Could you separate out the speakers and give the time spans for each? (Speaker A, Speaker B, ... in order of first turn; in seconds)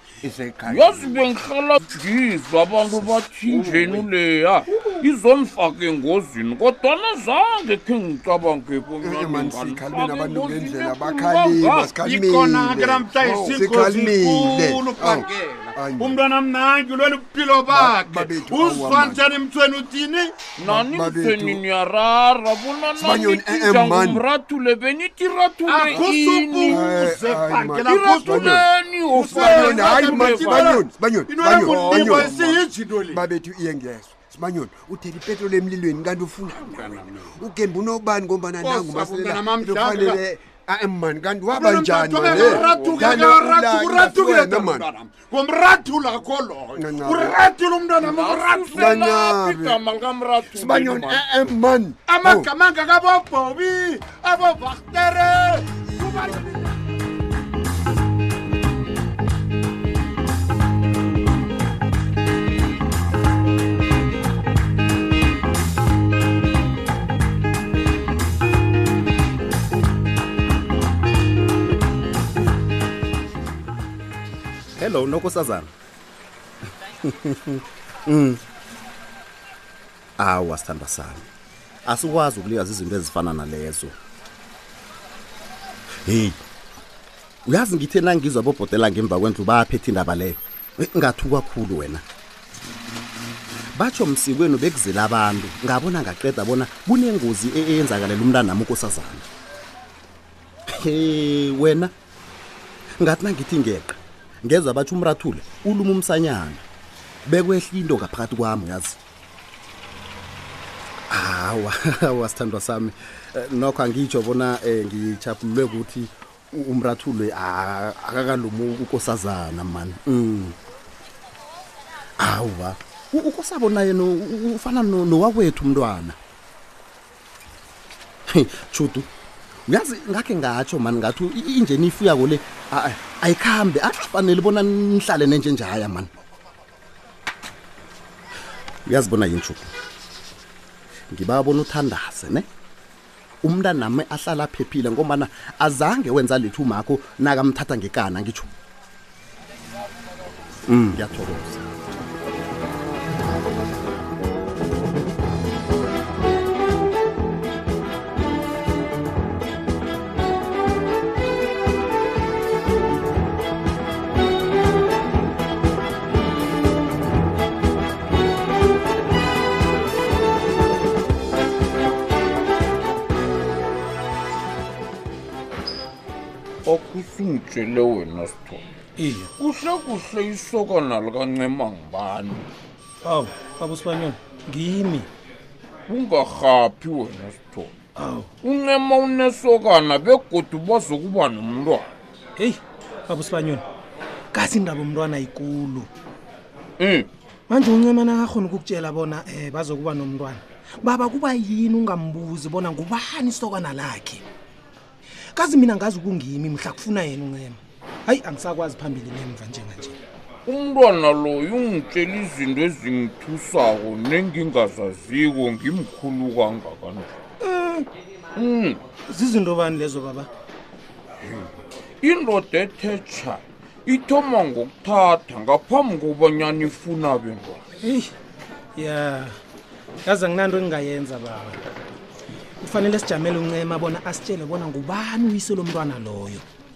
Speaker A: 0.2-1.2, 9.0-16.2, 17.7-19.2, 20.6-21.6, 23.0-24.2, 26.6-32.5, 33.1-44.9, 46.8-47.4, 48.7-49.8, 50.5-52.5, 55.9-56.2
Speaker B: 0.7-11.9, 20.6-30.8, 31.7-32.3, 42.1-43.3, 48.0-51.2, 176.7-178.6, 179.4-182.5, 185.9-187.7, 188.4-191.9, 196.8-197.1, 210.5-217.1, 218.3-218.8, 222.0-227.6
Speaker C: 3.5-3.8, 12.0-20.5, 25.7-28.5, 29.1-33.2, 36.6-37.4, 38.6-40.2, 41.5-49.0, 52.1-56.7
Speaker D: 74.8-75.7, 77.0-78.4, 80.2-81.3, 81.8-83.9, 86.0-86.4, 87.5-92.0, 93.7-99.2, 100.7-101.9, 103.0-106.6, 107.2-109.0, 111.1-120.6, 122.2-126.2, 128.3-129.1, 129.7-136.1, 138.8-139.7, 141.1-142.5, 143.4-148.5, 150.7-151.7
Speaker E: 179.0-179.3, 183.0-185.1, 188.0-188.3, 192.4-193.7, 194.3-195.9, 197.5-204.2, 205.3-210.0, 217.4-217.8, 219.1-220.3, 227.8-228.1, 228.7-229.3, 230.0-231.6, 232.6-236.4